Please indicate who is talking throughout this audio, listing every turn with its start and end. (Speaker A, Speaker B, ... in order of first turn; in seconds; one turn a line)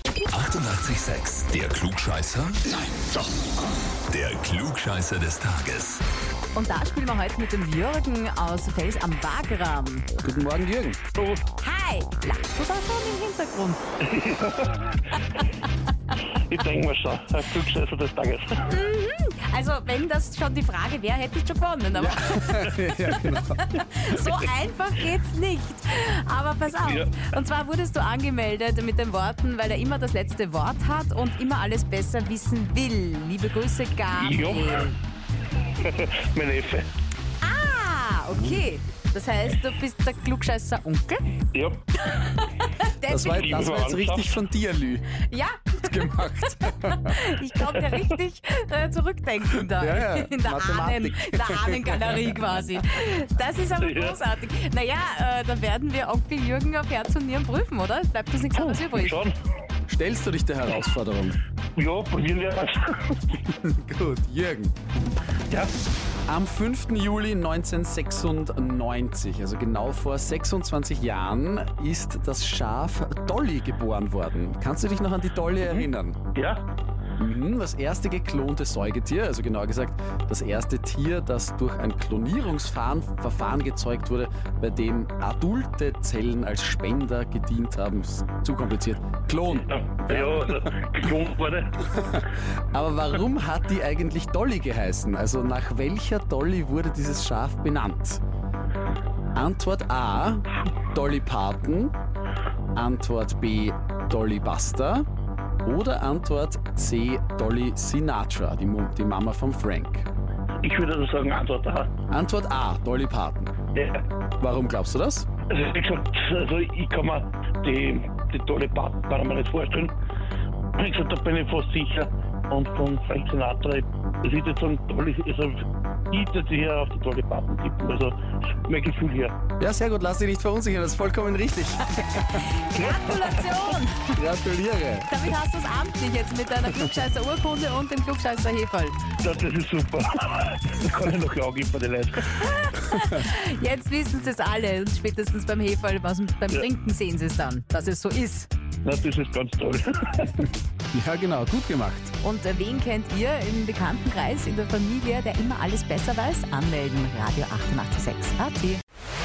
Speaker A: 0.3-2.8
Speaker A: 4.1-6.0
Speaker B: 6.5-10.1
Speaker C: 10.2-11.0
Speaker D: 11.2-11.4
Speaker B: 11.6-13.8
Speaker D: 14.0-15.2
Speaker D: 16.3-18.8
Speaker B: 18.7-35.0
Speaker C: 21.9-23.7
Speaker D: 26.8-27.2
Speaker D: 34.2-34.9
Speaker D: 35.8-36.9
Speaker B: 37.4-41.2
Speaker D: 41.5-42.0
Speaker B: 42.0-43.5
Speaker C: 43.1-45.2
Speaker D: 43.3-44.3
Speaker B: 45.2-59.2
Speaker C: 45.8-47.4
Speaker C: 49.6-52.3
Speaker D: 53.8-54.2
Speaker D: 58.5-59.3
Speaker C: 59.9-61.4
Speaker D: 61.8-63.4
Speaker C: 63.5-64.7
Speaker C: 66.3-76.2
Speaker D: 75.6-76.6
Speaker C: 77.2-90.7
Speaker D: 89.5-91.8
Speaker C: 91.9-98.2
Speaker C: 99.3-101.9
Speaker C: 102.8-105.1
Speaker C: 105.6-110.1
Speaker D: 110.6-111.9
Speaker C: 112.1-113.5
Speaker D: 113.7-114.1
Speaker C: 114.4-115.3
Speaker D: 115.5-119.9
Speaker D: 120.8-129.3
Speaker C: 129.6-132.5
Speaker B: 132.3-134.2
Speaker D: 132.7-133.8
Speaker C: 134.2-135.2
Speaker B: 135.1-139.0
Speaker D: 139.2-142.4
Speaker B: 142.4-148.5
Speaker C: 142.9-143.2
Speaker D: 148.8-150.5
Speaker C: 150.9-152.1
Speaker B: 152.2-158.8